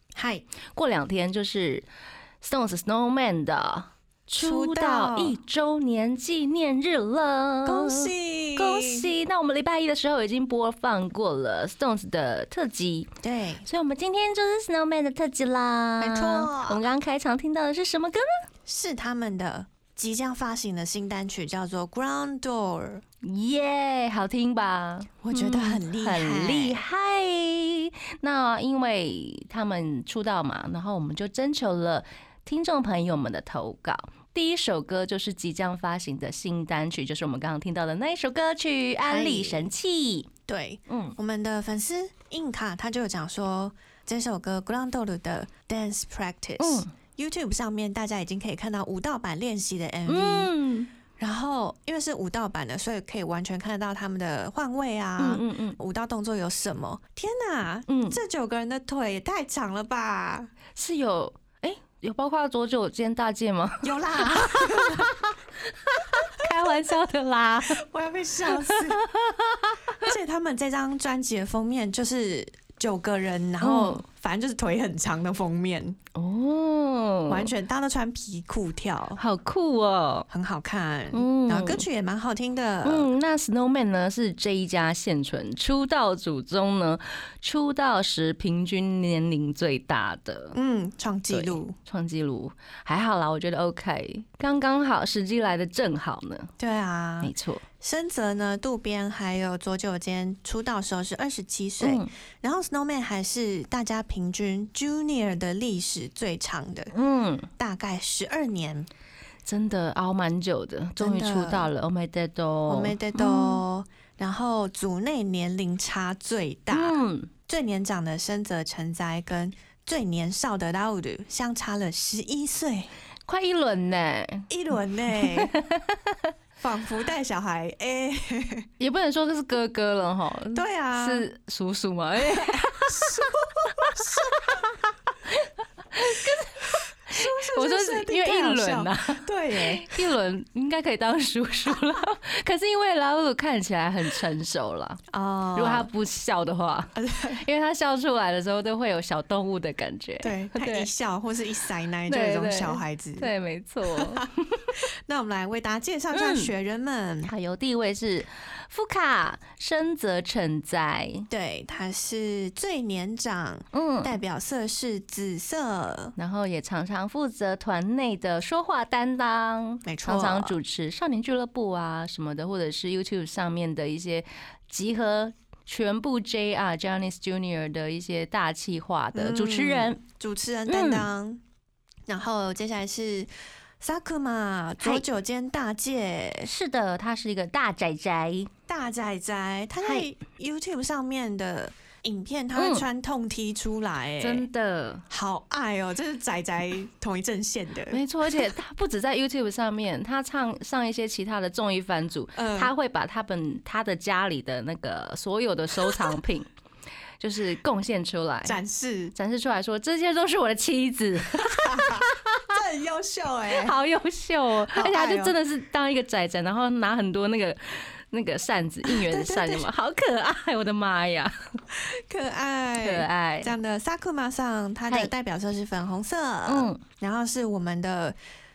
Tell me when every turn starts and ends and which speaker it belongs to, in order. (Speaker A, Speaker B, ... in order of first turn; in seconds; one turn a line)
Speaker A: 0.1-0.5
Speaker B: 0.7-1.9
Speaker B: 2.4-13.1
Speaker A: 4.4-5.4
Speaker A: 7.6-9.1
Speaker A: 13.2-13.7
Speaker B: 13.6-18.4
Speaker A: 16.0-16.8
Speaker A: 18.6-23.0
Speaker B: 23.2-40.3
Speaker A: 25.2-26.8
Speaker A: 39.0-39.7
Speaker A: 40.5-50.5
Speaker B: 40.9-41.1
Speaker B: 46.6-46.9
Speaker B: 50.1-50.9
Speaker A: 51.2-60.5
Speaker B: 55.2-55.8
Speaker B: 57.9-58.2
Speaker B: 60.8-65.1
Speaker A: 63.8-65.2
Speaker B: 66.1-67.8
Speaker A: 67.7-69.0
Speaker B: 68.5-70.0
Speaker A: 70.0-76.0
Speaker B: 73.6-74.0
Speaker B: 76.1-77.5
Speaker A: 77.3-79.2
Speaker B: 79.2-80.3
Speaker A: 80.3-83.1
Speaker B: 81.1-81.8
Speaker B: 82.8-90.6
Speaker A: 90.5-91.8
Speaker B: 91.3-96.5
Speaker A: 96.6-106.9
Speaker B: 97.2-97.7
Speaker B: 101.8-102.1
Speaker B: 106.9-107.5
Speaker A: 107.6-108.9
Speaker B: 109.4-113.6
Speaker A: 111.0-111.7
Speaker A: 112.7-117.0
Speaker B: 116.7-117.3
Speaker A: 117.5-122.9
Speaker B: 123.3-124.5
Speaker A: 124.5-125.5
Speaker B: 125.1-126.2
Speaker A: 126.6-128.7
Speaker B: 128.8-134.2
Speaker A: 130.5-131.2
Speaker A: 132.2-134.8
Speaker B: 135.3-145.0
Speaker A: 137.1-140.0
Speaker A: 145.1-145.9
Speaker B: 145.5-150.9
Speaker A: 146.9-147.4
Speaker A: 150.2-153.3
Speaker B: 152.1-154.7
Speaker A: 153.9-154.3
Speaker A: 155.1-157.3
Speaker B: 156.1-156.5
Speaker B: 157.2-161.3
Speaker A: 161.3-166.1
Speaker B: 163.7-164.1
Speaker B: 166.2-180.0
Speaker A: 169.8-170.6
Speaker A: 179.1-181.4
Speaker B: 180.7-181.1
Speaker A: 182.1-186.5
Speaker B: 186.4-188.5
Speaker A: 188.7-194.5
Speaker B: 192.6-192.8
Speaker B: 194.2-195.0
Speaker A: 195.1-198.0
Speaker B: 197.9-206.5
Speaker A: 202.3-202.7
Speaker B: 207.2-208.6
Speaker A: 208.4-209.1
Speaker B: 209.1-212.1
Speaker A: 211.4-213.8
Speaker B: 213.5-221.3
Speaker A: 214.7-215.3
Speaker A: 218.8-219.7
Speaker A: 221.7-228.2
Speaker B: 222.8-223.5
Speaker B: 226.5-226.8